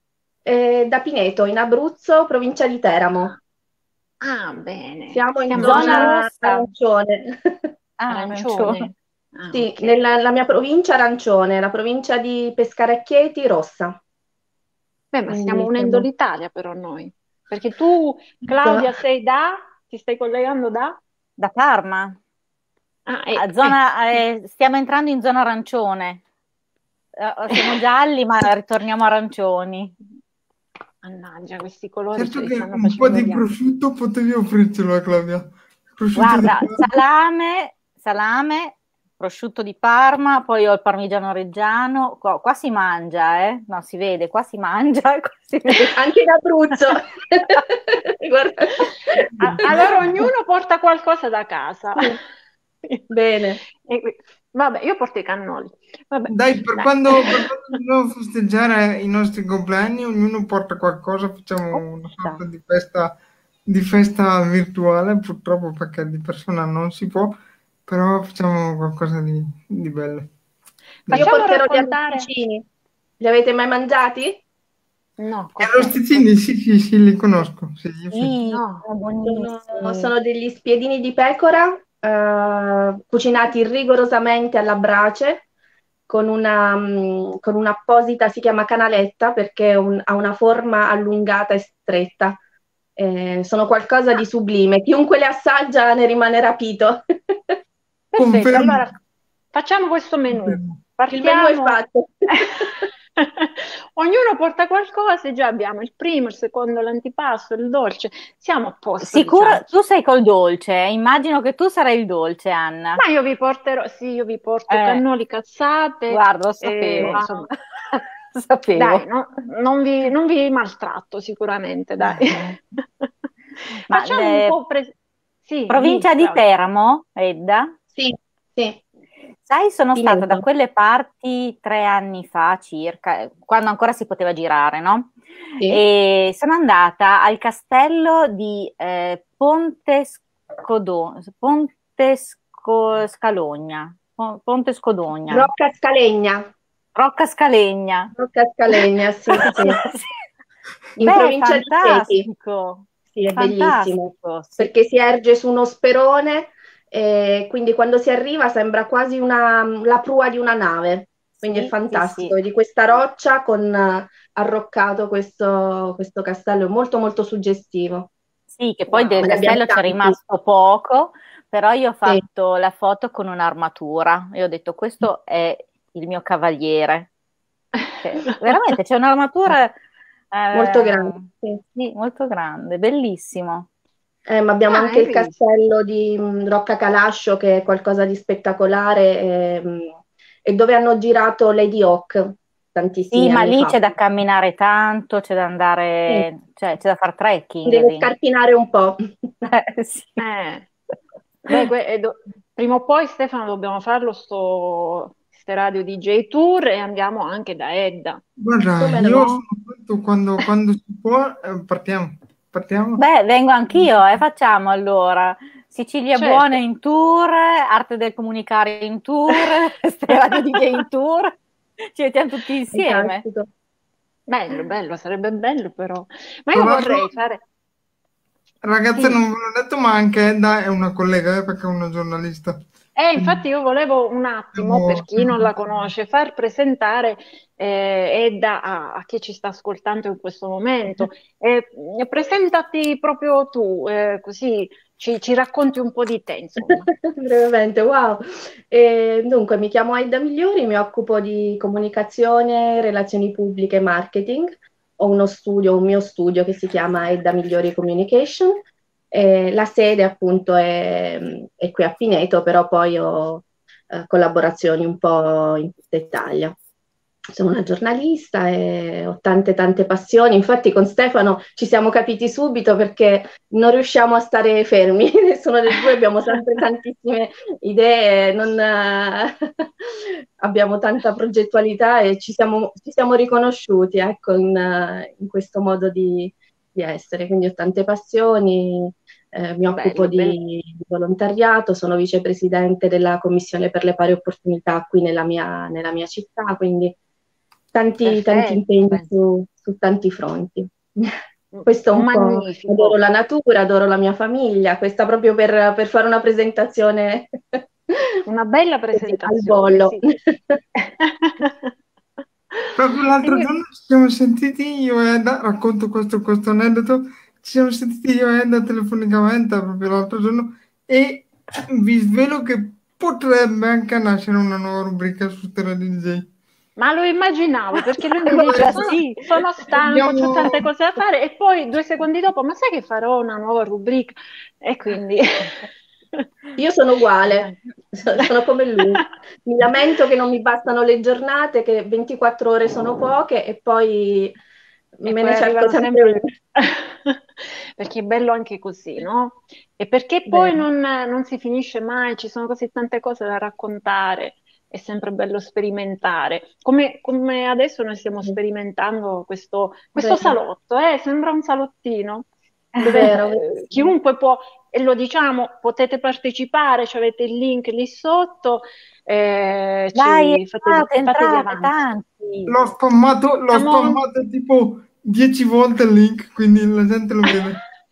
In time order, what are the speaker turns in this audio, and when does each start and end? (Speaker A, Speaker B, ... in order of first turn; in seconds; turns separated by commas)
Speaker A: 0.5-3.4, Speaker B: 4.2-6.2, Speaker A: 5.1-7.7, Speaker C: 5.5-6.7, Speaker C: 8.0-8.9, Speaker B: 8.1-9.9, Speaker A: 9.5-14.0, Speaker B: 15.1-21.0, Speaker A: 15.3-16.1, Speaker A: 18.5-18.9, Speaker C: 21.4-22.2, Speaker B: 23.1-23.8, Speaker C: 23.4-26.2, Speaker C: 27.2-29.9, Speaker B: 31.0-33.5, Speaker D: 32.2-36.9, Speaker C: 36.1-46.0, Speaker A: 46.0-49.9, Speaker D: 49.4-49.7, Speaker B: 49.4-52.2, Speaker A: 53.1-53.6, Speaker B: 53.8-57.8, Speaker D: 56.3-63.1, Speaker B: 61.7-62.4, Speaker D: 63.7-70.3, Speaker D: 71.1-71.3, Speaker B: 71.1-72.3, Speaker A: 71.2-72.7, Speaker A: 73.2-74.4, Speaker B: 75.2-76.3, Speaker D: 75.6-78.3, Speaker C: 78.1-80.1, Speaker B: 78.5-78.8, Speaker A: 79.2-85.4, Speaker A: 86.1-92.4, Speaker A: 93.0-97.0, Speaker B: 98.1-99.0, Speaker D: 98.2-98.9, Speaker B: 99.5-101.8, Speaker D: 100.3-100.8, Speaker A: 101.1-102.9, Speaker B: 102.3-109.7, Speaker C: 109.0-113.0, Speaker B: 113.0-117.5, Speaker C: 114.7-115.0, Speaker C: 116.1-117.2, Speaker A: 117.0-117.4, Speaker C: 117.9-119.0, Speaker B: 118.8-123.1, Speaker C: 122.0-122.6, Speaker B: 123.9-124.9, Speaker C: 123.9-124.6, Speaker B: 125.5-126.4, Speaker C: 125.7-127.7, Speaker A: 128.0-128.8, Speaker C: 129.4-145.5, Speaker A: 130.0-130.4, Speaker A: 145.3-146.5, Speaker C: 147.0-148.1, Speaker A: 148.2-149.8, Speaker C: 149.4-150.1, Speaker A: 151.0-152.3, Speaker C: 151.0-154.7, Speaker A: 153.1-168.1, Speaker C: 161.4-162.3, Speaker C: 168.6-177.1, Speaker B: 168.9-169.4, Speaker A: 168.9-170.2, Speaker C: 178.0-179.8, Speaker C: 180.3-183.7, Speaker A: 180.5-181.6, Speaker A: 184.3-193.9, Speaker B: 184.7-185.3, Speaker C: 193.1-198.1, Speaker A: 197.7-199.5, Speaker C: 199.5-200.2, Speaker B: 200.2-200.7, Speaker B: 201.4-208.2, Speaker D: 208.4-213.0, Speaker A: 208.8-209.4, Speaker C: 213.0-221.4, Speaker B: 216.2-216.6, Speaker C: 221.9-223.2, Speaker A: 222.7-223.5, Speaker B: 224.3-227.4, Speaker D: 226.5-227.1, Speaker D: 228.6-232.7, Speaker B: 233.0-246.9, Speaker D: 233.2-233.4, Speaker D: 234.6-235.9, Speaker A: 246.6-258.6, Speaker A: 259.1-266.6, Speaker A: 267.3-279.3, Speaker A: 279.9-297.0, Speaker B: 289.7-290.4, Speaker A: 297.7-301.1, Speaker B: 298.0-299.1, Speaker B: 301.5-303.0, Speaker A: 301.7-307.6, Speaker B: 308.3-310.0, Speaker A: 308.9-310.6, Speaker B: 310.8-311.7, Speaker D: 312.8-326.3, Speaker B: 313.2-313.5, Speaker B: 326.8-336.3, Speaker C: 328.3-329.3, Speaker D: 328.3-328.9, Speaker D: 329.8-330.7, Speaker A: 336.6-344.4, Speaker B: 337.2-337.6, Speaker A: 345.0-346.2, Speaker B: 345.1-362.3, Speaker A: 350.3-350.6, Speaker A: 360.0-360.4, Speaker C: 362.8-363.1, Speaker B: 362.8-371.9, Speaker A: 362.8-363.9, Speaker C: 370.0-372.6, Speaker D: 372.5-377.6, Speaker B: 373.5-374.0